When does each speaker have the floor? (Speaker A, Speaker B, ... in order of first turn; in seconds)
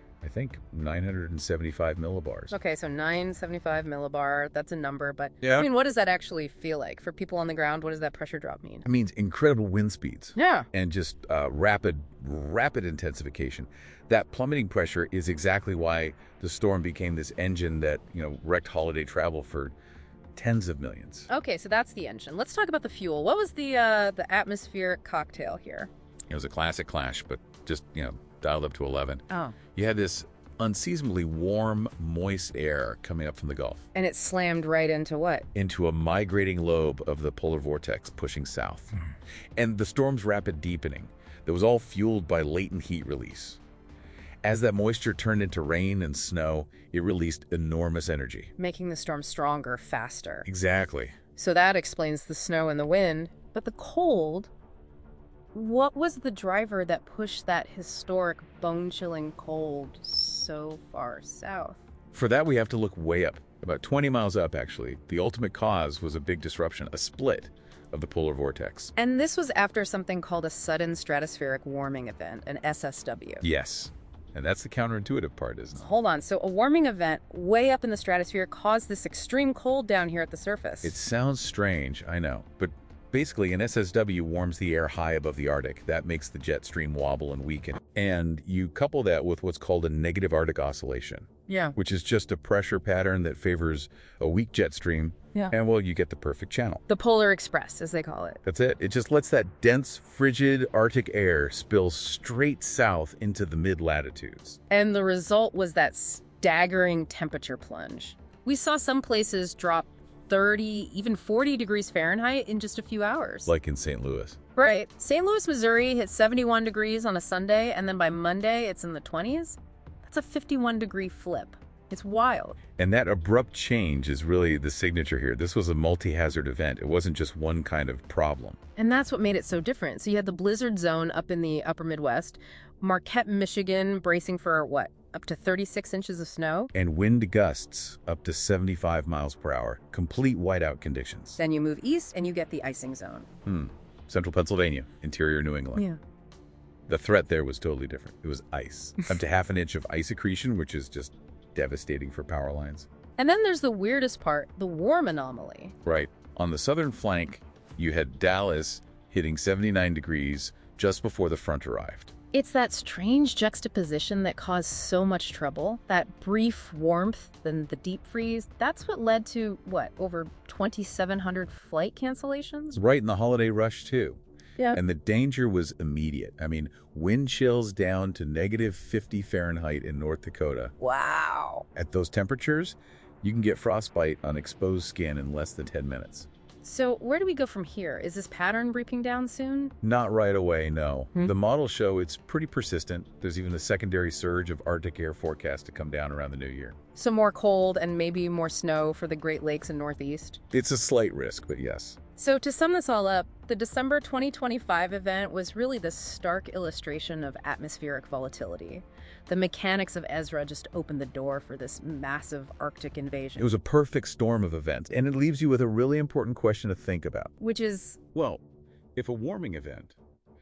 Speaker A: 0.2-2.5, 5.4-5.7, 8.8-19.7, 20.3-21.3, 26.3-33.8, 35.5-38.9, 39.6-43.6, 44.4-48.5, 50.5-51.1, 62.1-68.9, 73.4-75.9, 80.8-96.8, 98.4-104.6, 113.5-114.4, 122.8-128.6, 136.7-141.4, 143.4-145.8, 146.9-152.9, 155.8-162.1, 172.7-174.2, 174.7-180.7, 181.7-186.3, 189.8-196.8, 200.5-202.0, 213.4-217.3, 218.1-218.4, 218.9-219.9
Speaker B: 2.5-8.8, 10.3-10.7, 21.3-25.9, 29.3-29.6, 33.9-35.5, 48.6-50.5, 51.3-54.5, 55.5-61.8, 69.0-73.4, 75.8-81.0, 91.5-91.7, 96.9-98.4, 104.7-113.5, 114.5-122.6, 128.8-136.7, 141.4-143.3, 153.2-155.7, 162.3-172.8, 180.8-181.7, 186.6-189.7, 196.9-200.4, 202.2-213.5, 217.4-218.0